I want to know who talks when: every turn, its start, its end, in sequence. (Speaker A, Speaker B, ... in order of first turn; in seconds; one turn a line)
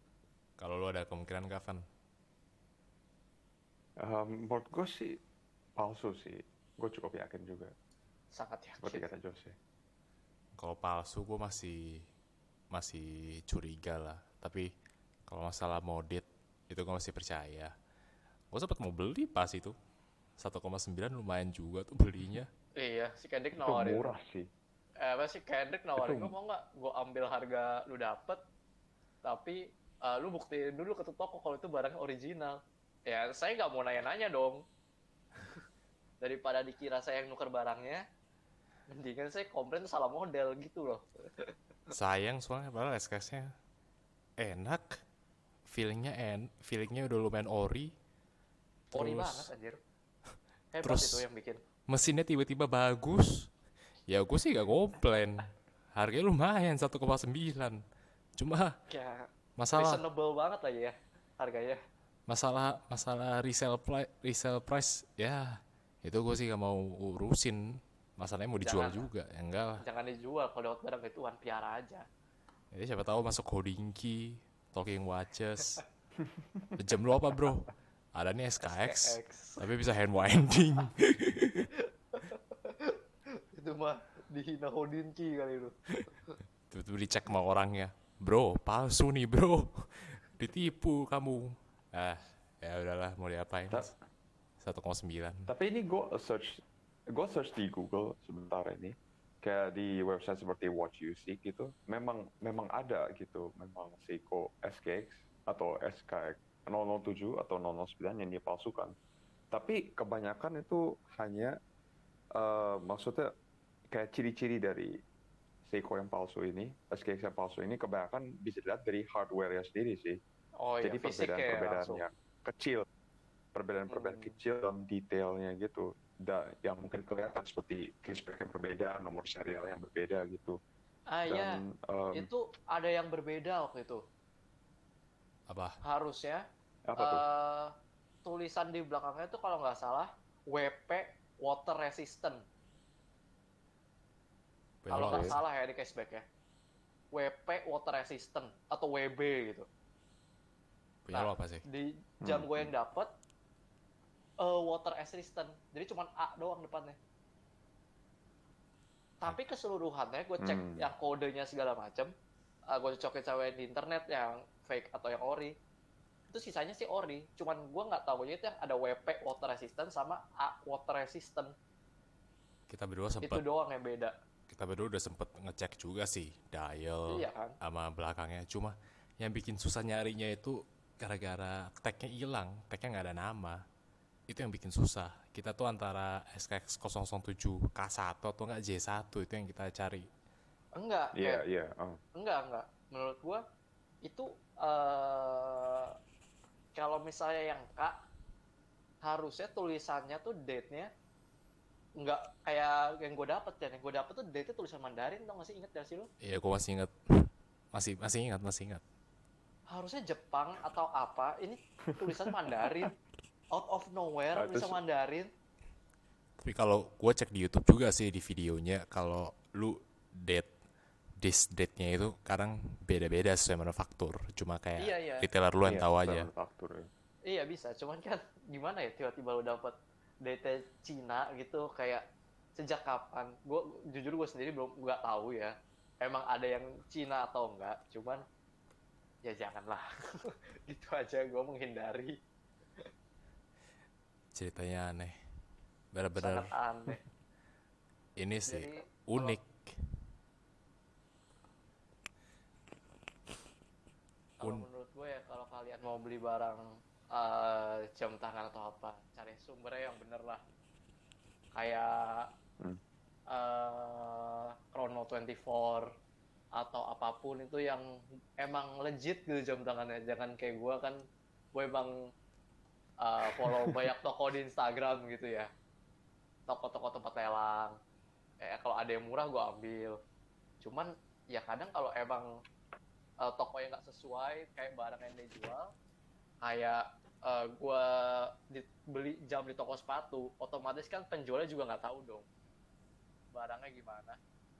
Speaker A: 0.6-1.8
Speaker B: 4.0-5.2
Speaker B: 5.8-7.7
Speaker C: 8.3-9.0
Speaker B: 8.8-9.6
Speaker A: 10.6-12.1
Speaker A: 12.7-14.7
Speaker A: 15.3-17.7
Speaker A: 18.5-19.7
Speaker A: 20.4-22.5
Speaker C: 22.8-24.1
Speaker B: 23.6-24.5
Speaker C: 25.0-28.4
Speaker B: 26.0-26.3
Speaker C: 29.2-34.6
Speaker C: 36.2-38.0
Speaker C: 38.9-41.5
Speaker A: 41.9-43.5
Speaker A: 44.4-45.0
Speaker A: 45.7-47.9
Speaker A: 48.9-49.5
Speaker C: 48.9-49.8
Speaker C: 50.7-51.6
Speaker A: 50.8-51.2
Speaker A: 51.9-53.5
Speaker A: 54.1-57.8
Speaker A: 58.4-58.8
Speaker C: 58.9-61.8
Speaker A: 59.6-60.0
Speaker A: 62.3-69.8
Speaker C: 68.6-69.1
Speaker C: 69.8-72.0
Speaker A: 72.7-75.8
Speaker A: 76.8-81.7
Speaker C: 78.6-79.7
Speaker C: 81.8-83.0
Speaker C: 83.5-85.8
Speaker A: 86.7-93.9
Speaker A: 94.6-95.5
Speaker B: 95.5-108.9
Speaker B: 109.5-111.5
Speaker B: 112.3-113.3
Speaker B: 113.9-114.9
Speaker B: 115.6-120.2
Speaker C: 120.6-122.0
Speaker B: 120.8-122.8
Speaker B: 123.5-130.6
Speaker C: 123.9-124.3
Speaker C: 131.1-131.6
Speaker B: 131.3-132.3
Speaker C: 132.1-134.0
Speaker A: 135.5-135.8
Speaker C: 135.8-136.4
Speaker B: 136.9-137.2
Speaker C: 137.0-137.7
Speaker C: 138.2-142.4
Speaker A: 144.8-145.4
Speaker C: 144.9-146.2
Speaker B: 145.0-145.4
Speaker C: 147.1-149.7
Speaker A: 151.0-151.6
Speaker C: 151.1-153.1
Speaker B: 152.2-152.7
Speaker C: 154.4-157.0
Speaker C: 159.2-162.1
Speaker B: 160.4-160.9
Speaker C: 162.7-165.5
Speaker C: 166.3-171.5
Speaker A: 172.7-173.4
Speaker C: 173.2-174.1
Speaker A: 174.5-183.6
Speaker C: 177.1-177.6
Speaker A: 184.3-190.1
Speaker C: 190.8-191.4
Speaker B: 191.1-192.0
Speaker C: 192.2-193.4
Speaker C: 194.0-195.9
Speaker C: 196.8-198.0
Speaker C: 199.0-200.9
Speaker C: 202.0-206.1
Speaker A: 206.2-208.8
Speaker C: 209.7-212.9
Speaker B: 211.9-212.9
Speaker C: 213.5-215.3
Speaker B: 214.3-214.8
Speaker A: 216.4-220.5
Speaker A: 221.2-226.3
Speaker C: 224.8-225.3
Speaker B: 225.6-226.9
Speaker C: 227.3-232.0
Speaker C: 232.6-238.2
Speaker C: 239.2-242.2
Speaker A: 244.3-245.2
Speaker A: 245.9-246.5
Speaker C: 246.2-247.0
Speaker A: 248.2-249.8
Speaker C: 248.5-249.4
Speaker A: 254.4-254.7
Speaker C: 254.4-256.6
Speaker C: 257.1-260.4
Speaker C: 261.6-262.3
Speaker C: 263.3-265.9
Speaker C: 266.6-267.8
Speaker C: 268.4-271.0
Speaker C: 271.5-271.9
Speaker C: 273.0-275.5
Speaker B: 273.3-273.8
Speaker C: 276.5-277.8
Speaker C: 278.4-280.0
Speaker C: 280.6-282.3
Speaker C: 283.2-285.7
Speaker C: 286.4-292.3
Speaker C: 293.3-294.2